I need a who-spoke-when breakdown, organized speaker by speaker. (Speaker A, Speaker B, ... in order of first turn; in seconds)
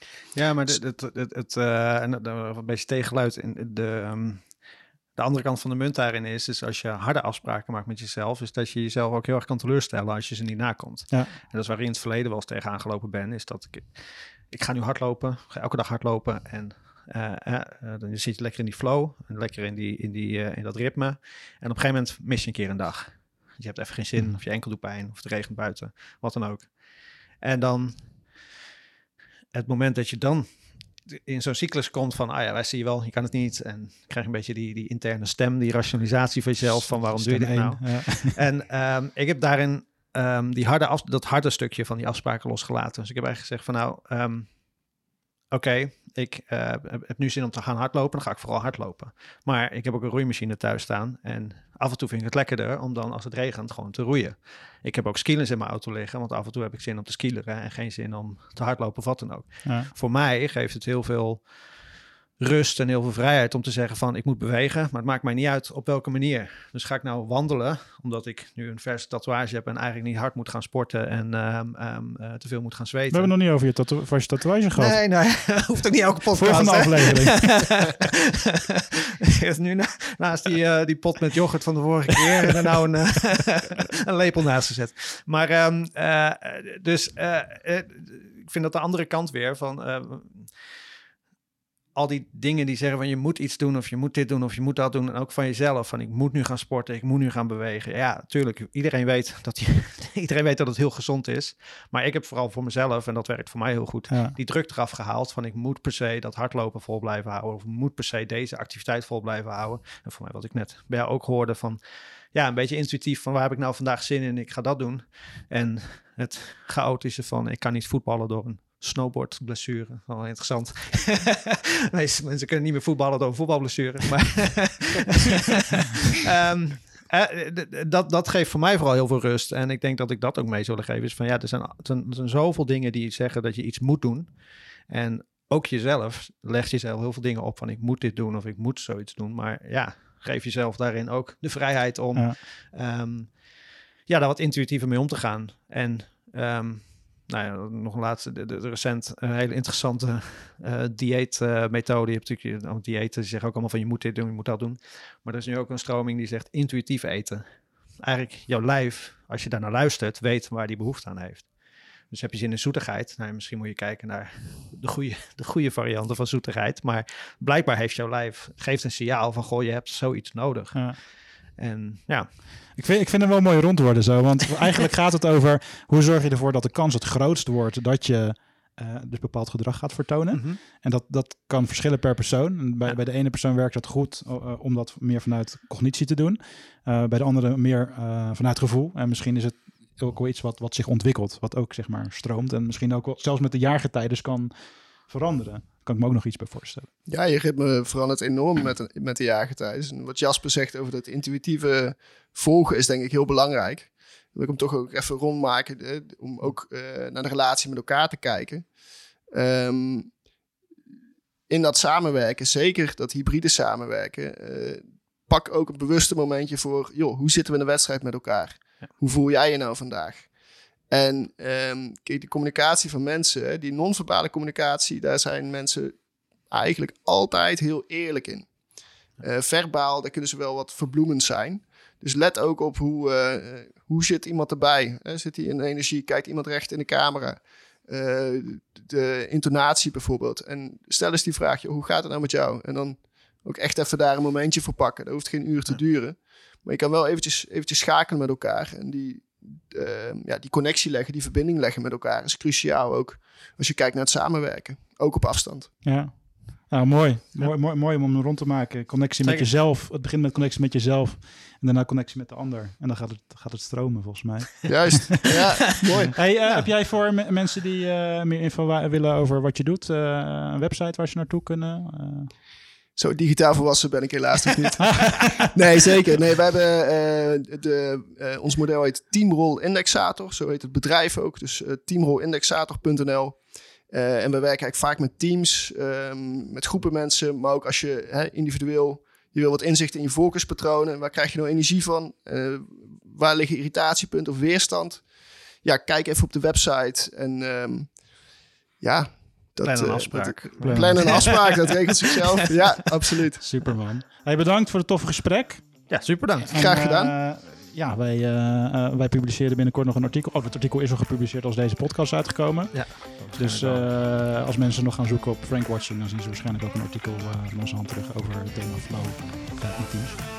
Speaker A: 0.3-26.8, 27.4-28.4, 29.5-44.9, 45.5-61.9, 62.4-73.3, 74.8-90.7, 91.9-172.4, 180.3-180.6, 259.2-259.5, 265.3-266.7, 299.6-301.8, 305.9-306.6, 312.7-313.9
Speaker B: 36.6-38.4, 59.6-59.9, 73.1-75.0, 76.3-77.6, 104.1-104.3, 172.7-194.5, 195.0-196.9, 255.8-265.3, 266.1-272.3, 300.6-301.3, 303.4-320.2
Speaker C: 197.1-208.7, 209.3-210.1, 211.5-220.3, 220.9-226.0, 226.5-228.5, 229.2-255.7, 264.7-266.2, 272.9-295.0, 295.6-297.9, 298.8-303.5, 306.5-307.1